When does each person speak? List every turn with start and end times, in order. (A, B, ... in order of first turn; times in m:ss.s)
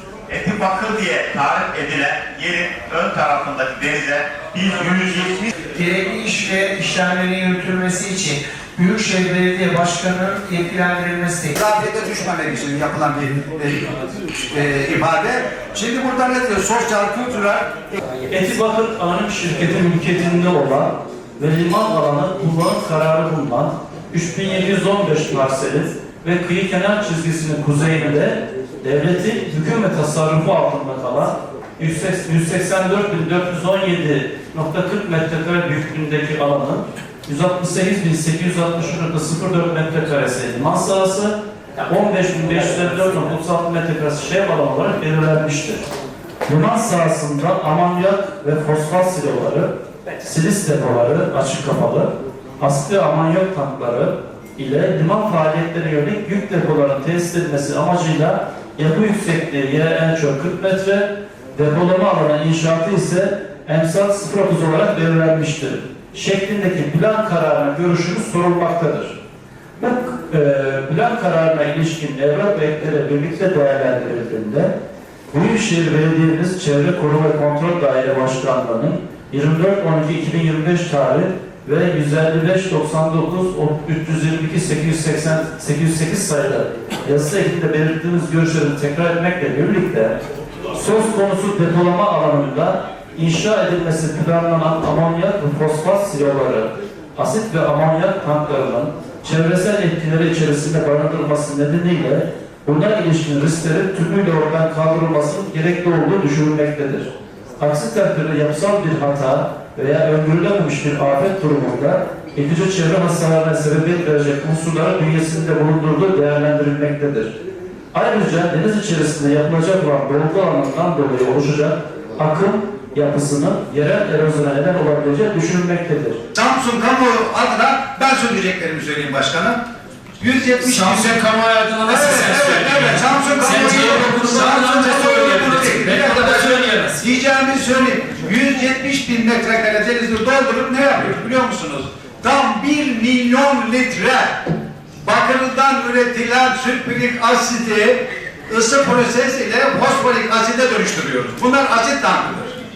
0:00.3-0:05.5 A
0:05.7-0:11.5 B
0:11.5-0:14.0 C
0:14.5-0:17.7 C
0:18.3-0:45.8 D
0:46.5-1:09.2 D
1:09.8-1:14.7 D
1:15.3-1:30.2 D
1:30.7-1:57.3 D
1:57.9-2:06.2 D
2:06.3-2:09.6 C
2:10.2-2:11.2 C
2:10.6-2:17.0 E
2:11.8-2:24.4 C
2:25.0-2:32.5 C